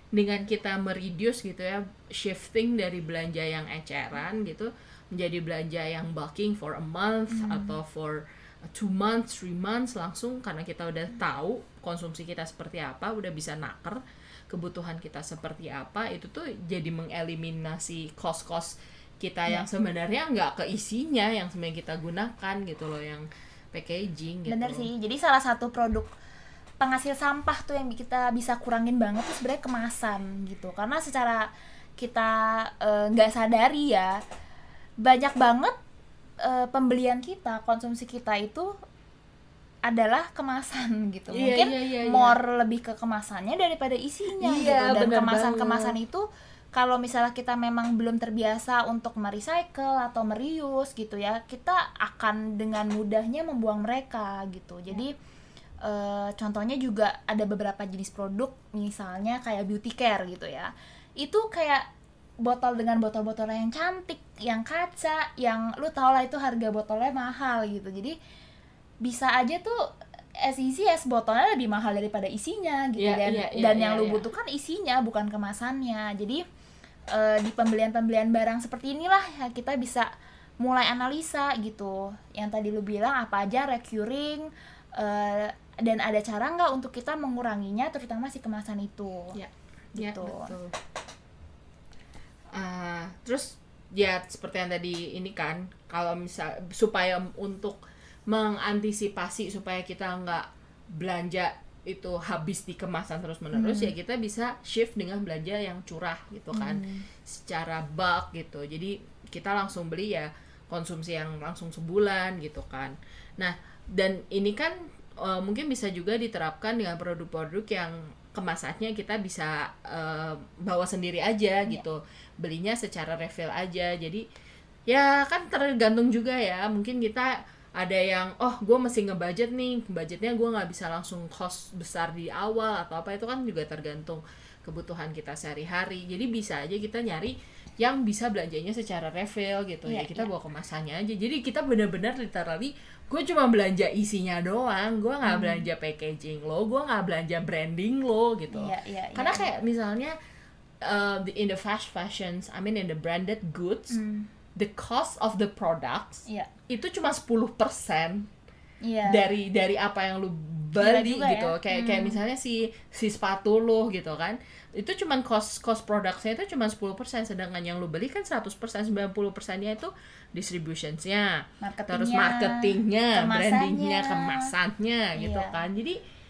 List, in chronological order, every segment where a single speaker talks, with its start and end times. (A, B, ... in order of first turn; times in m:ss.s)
0:00.1-0:24.9 A
0:07.3-0:07.8 B
0:24.5-0:26.1 B
0:26.8-0:34.2 B
0:35.0-0:35.7 B
0:36.4-0:38.7 B
0:39.8-0:55.1 B
0:41.3-0:42.4 A
0:44.4-0:46.0 A
0:55.8-1:01.8 B
1:02.4-1:08.2 B
1:09.0-1:09.8 B
1:10.4-1:16.4 B
1:13.0-1:14.3 A
1:17.1-1:29.4 B
1:29.3-1:30.8 A
1:30.0-1:30.5 B
1:32.5-2:04.2 A
1:43.5-1:43.9 B
1:46.5-1:47.1 B
2:04.9-2:30.2 A
2:19.8-2:20.3 B
2:25.2-2:25.6 B
2:28.5-2:29.5 B
2:30.8-2:34.0 A
2:33.9-2:34.3 B
2:34.6-2:38.3 A
2:38.8-2:39.3 B
2:39.0-2:56.0 A
2:40.8-2:42.2 B
2:51.6-2:54.5 B
2:55.2-2:55.6 B